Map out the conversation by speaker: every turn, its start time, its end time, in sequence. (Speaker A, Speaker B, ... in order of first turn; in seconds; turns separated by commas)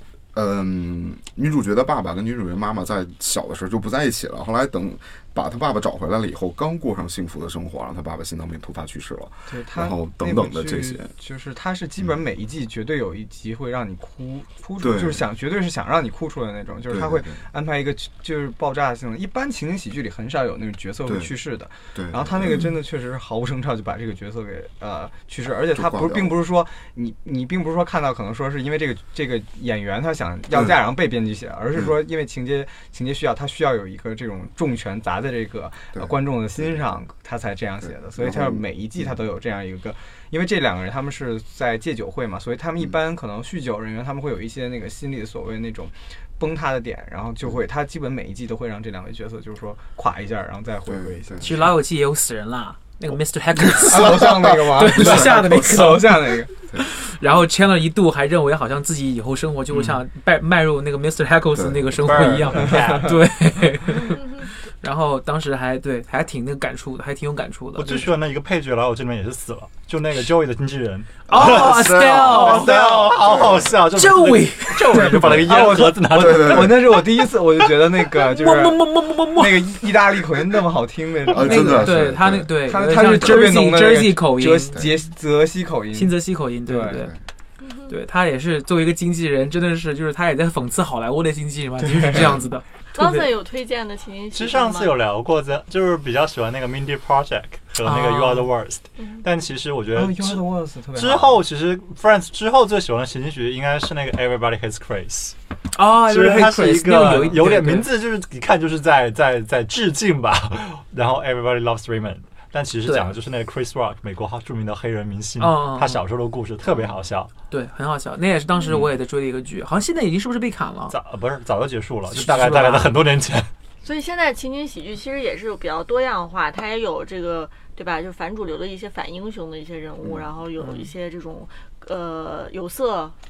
Speaker A: 0.3-11.1, Speaker B: 9.5-51.7, Speaker A: 14.8-15.2, Speaker A: 16.9-17.4, Speaker A: 21.1-21.3, Speaker A: 21.9-22.6, Speaker A: 25.7-26.4, Speaker A: 30.5-30.8, Speaker A: 37.8-39.0, Speaker A: 50.9-51.6, Speaker C: 51.4-68.1, Speaker B: 53.7-56.5, Speaker A: 55.0-55.5, Speaker A: 61.5-62.0, Speaker D: 62.0-63.1, Speaker B: 62.5-63.2, Speaker D: 67.8-77.0, Speaker C: 71.3-72.7, Speaker A: 71.3-73.7, Speaker B: 72.4-73.4, Speaker C: 73.9-75.3, Speaker B: 74.7-87.1, Speaker A: 75.2-75.5, Speaker A: 76.1-77.0, Speaker C: 78.2-79.8, Speaker A: 81.3-83.5, Speaker C: 81.3-84.8, Speaker C: 85.9-87.1, Speaker E: 87.6-87.9, Speaker C: 87.9-93.3, Speaker B: 91.8-92.4, Speaker E: 92.9-95.0, Speaker D: 94.3-100.4, Speaker C: 97.8-98.5, Speaker B: 99.9-101.4, Speaker D: 100.9-105.3, Speaker C: 105.7-107.9, Speaker D: 106.0-117.3, Speaker C: 112.8-113.1, Speaker C: 115.4-116.0, Speaker C: 117.5-120.9, Speaker D: 120.9-123.5, Speaker C: 122.1-123.0, Speaker E: 123.8-133.2, Speaker C: 130.6-130.9